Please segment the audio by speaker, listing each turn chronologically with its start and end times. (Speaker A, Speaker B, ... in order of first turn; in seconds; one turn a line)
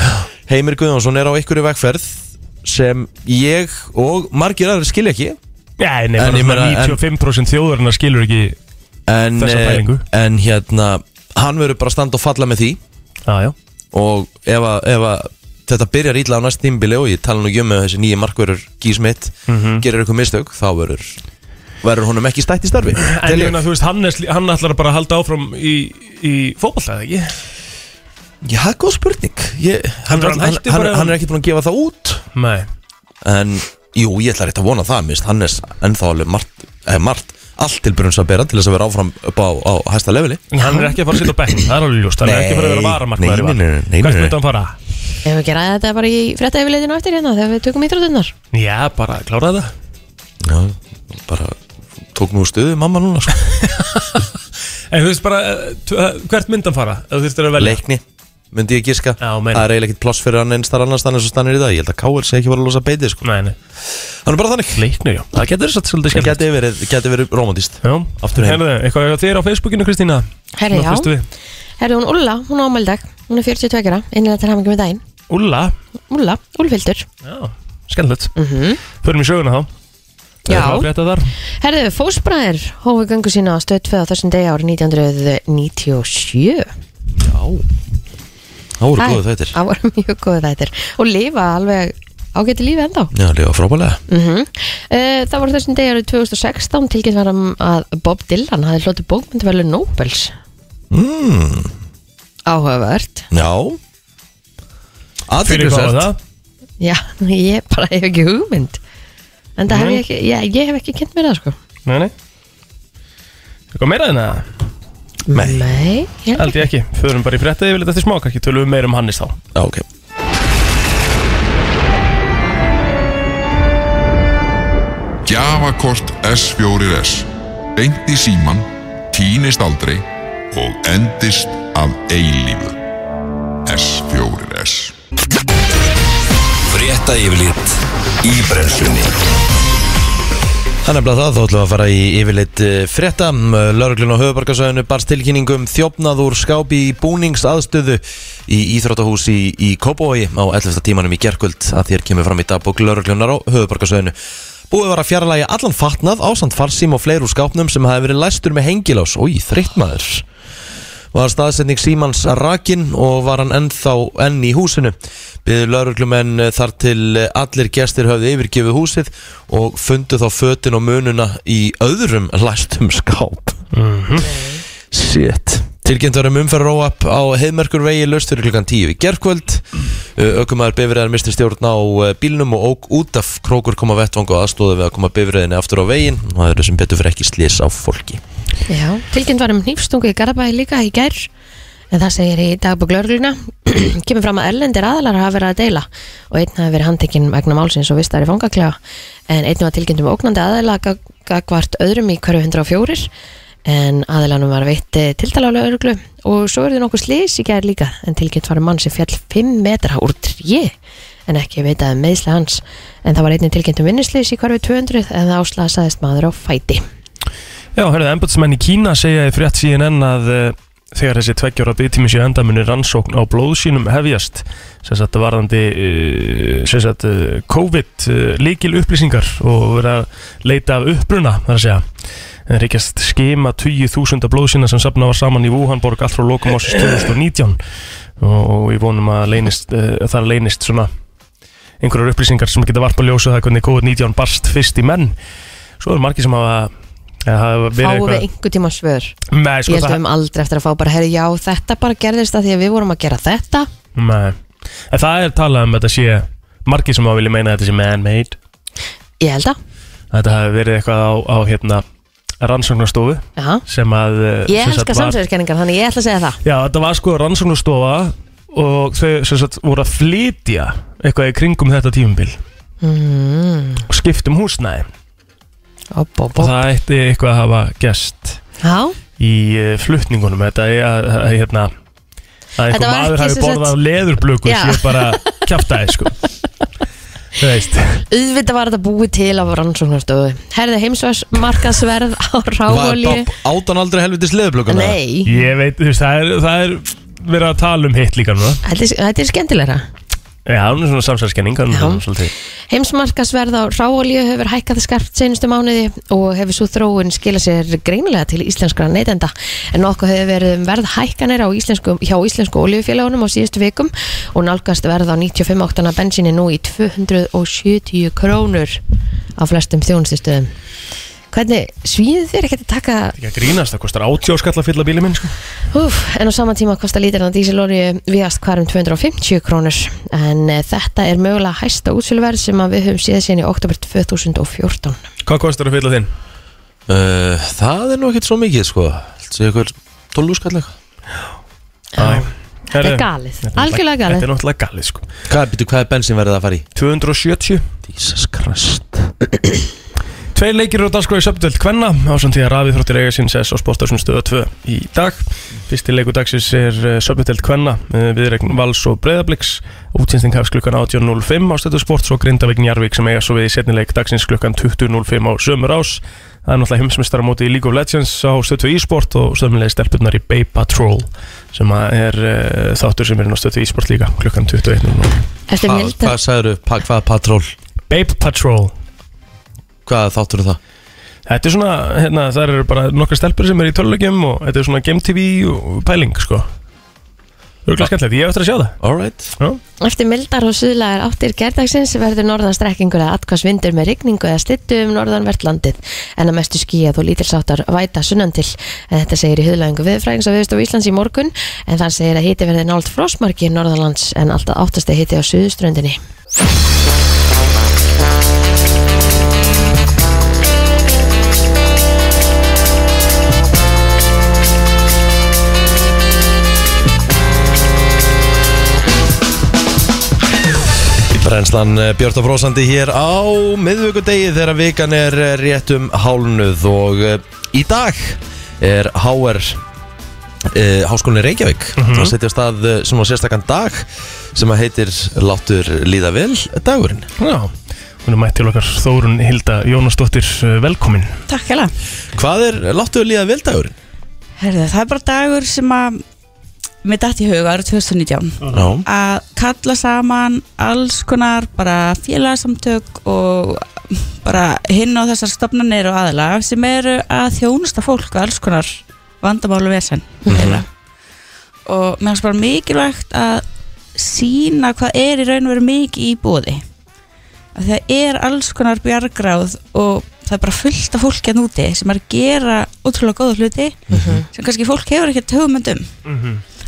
Speaker A: 0.5-5.4
Speaker B: 5.8-8.6
Speaker A: 6.2-7.0
Speaker A: 9.1-12.8
Speaker B: 9.4-10.1
Speaker B: 13.3-13.6
Speaker A: 13.9-21.2
Speaker B: 19.5-19.8
Speaker A: 21.8-23.6
Speaker B: 23.0-27.4
Speaker A: 28.4-32.2
Speaker B: 30.1-31.2
Speaker B: 32.4-32.7
Speaker A: 33.2-40.4
Speaker B: 40.5-44.8
Speaker C: 40.6-40.9
Speaker A: 42.2-44.4
Speaker C: 45.2-48.3
Speaker B: 48.5-49.7
Speaker A: 50.4-51.6
Speaker A: 52.1-53.4
Speaker B: 53.5-54.2
Speaker B: 54.9-57.8
Speaker A: 57.6-63.2
Speaker B: 59.2-59.6
Speaker B: 63.2-63.6
Speaker A: 64.2-64.8
Speaker B: 64.8-66.4
Speaker A: 66.1-68.6
Speaker B: 67.8-71.2
Speaker C: 70.6-71.1
Speaker C: 71.8-75.0
Speaker B: 75.3-75.7
Speaker C: 76.1-77.1
Speaker B: 77.2-78.3
Speaker C: 78.4-78.8
Speaker B: 79.0-79.7
Speaker C: 80.5-80.9
Speaker B: 80.5-81.3
Speaker C: 81.6-86.7
Speaker A: 87.1-87.6
Speaker A: 88.8-89.5
Speaker C: 89.0-93.1
Speaker A: 93.1-94.0
Speaker C: 94.1-100.3
Speaker A: 100.9-101.7
Speaker C: 102.5-103.3
Speaker A: 103.3-103.8
Speaker A: 105.3-106.1
Speaker B: 105.4-106.2
Speaker C: 106.8-108.8
Speaker C: 109.6-111.6
Speaker B: 109.7-110.0
Speaker B: 111.9-112.1
Speaker B: 113.7-114.5
Speaker C: 115.3-116.7
Speaker A: 115.3-115.6
Speaker B: 116.4-119.4
Speaker A: 119.5-119.8
Speaker D: 125.2-132.8
Speaker D: 133.7-134.9
Speaker E: 136.7-139.1
Speaker A: 140.8-154.1
Speaker A: 154.7-160.2
Speaker A: 161.1-173.6
Speaker B: 173.7-174.3
Speaker A: 174.9-188.2
Speaker C: 188.7-191.3
Speaker C: 191.9-198.8
Speaker C: 199.3-203.1
Speaker C: 203.6-210.7
Speaker C: 211.3-216.8
Speaker B: 217.8-231.8
Speaker B: 232.5-237.6
Speaker B: 238.2-240.9
Speaker B: 241.8-245.1
Speaker B: 245.8-246.7
Speaker B: 247.3-248.2
Speaker C: 247.8-249.2
Speaker B: 249.3-250.0
Speaker C: 249.7-253.7
Speaker B: 253.9-254.4
Speaker B: 254.9-258.4
Speaker C: 259.2-259.6
Speaker B: 260.1-261.8
Speaker B: 262.4-265.2
Speaker C: 263.4-263.6
Speaker C: 264.5-266.4
Speaker B: 266.4-272.4
Speaker C: 272.8-273.9
Speaker B: 273.9-274.9
Speaker C: 275.9-276.6
Speaker B: 276.4-278.4
Speaker C: 278.6-279.0
Speaker B: 279.2-281.7
Speaker B: 282.6-286.2
Speaker C: 282.7-283.7
Speaker C: 284.4-285.4
Speaker B: 287.4-288.0
Speaker C: 288.1-293.3
Speaker A: 292.7-295.0
Speaker C: 294.7-295.3
Speaker B: 295.3-298.6
Speaker C: 298.6-299.9
Speaker B: 300.4-302.3
Speaker C: 301.7-302.0
Speaker C: 302.7-318.8
Speaker C: 319.4-320.5
Speaker C: 321.3-323.1
Speaker B: 323.2-325.3
Speaker C: 325.7-335.0
Speaker B: 335.3-336.1
Speaker A: 336.9-340.7
Speaker C: 341.9-344.2
Speaker B: 342.0-345.1
Speaker A: 345.3-346.6
Speaker B: 346.8-347.6
Speaker A: 347.9-349.6
Speaker B: 350.4-375.2
Speaker C: 375.5-376.2
Speaker A: 375.6-377.5
Speaker B: 377.9-378.7
Speaker A: 379.9-380.6
Speaker B: 381.3-386.5
Speaker B: 387.6-388.8
Speaker A: 388.8-389.3
Speaker C: 389.8-406.0
Speaker A: 421.1-429.6
Speaker A: 430.5-437.1
Speaker B: 431.8-432.1
Speaker B: 437.2-437.5
Speaker B: 438.0-441.1
Speaker F: 441.3-441.7
Speaker A: 442.1-443.7
Speaker F: 444.4-446.0
Speaker F: 446.8-460.6
Speaker A: 448.5-448.8
Speaker A: 460.3-460.6
Speaker F: 461.6-463.4
Speaker F: 463.9-466.6
Speaker F: 467.6-475.9
Speaker A: 473.9-474.2
Speaker C: 473.9-474.2
Speaker B: 476.1-476.4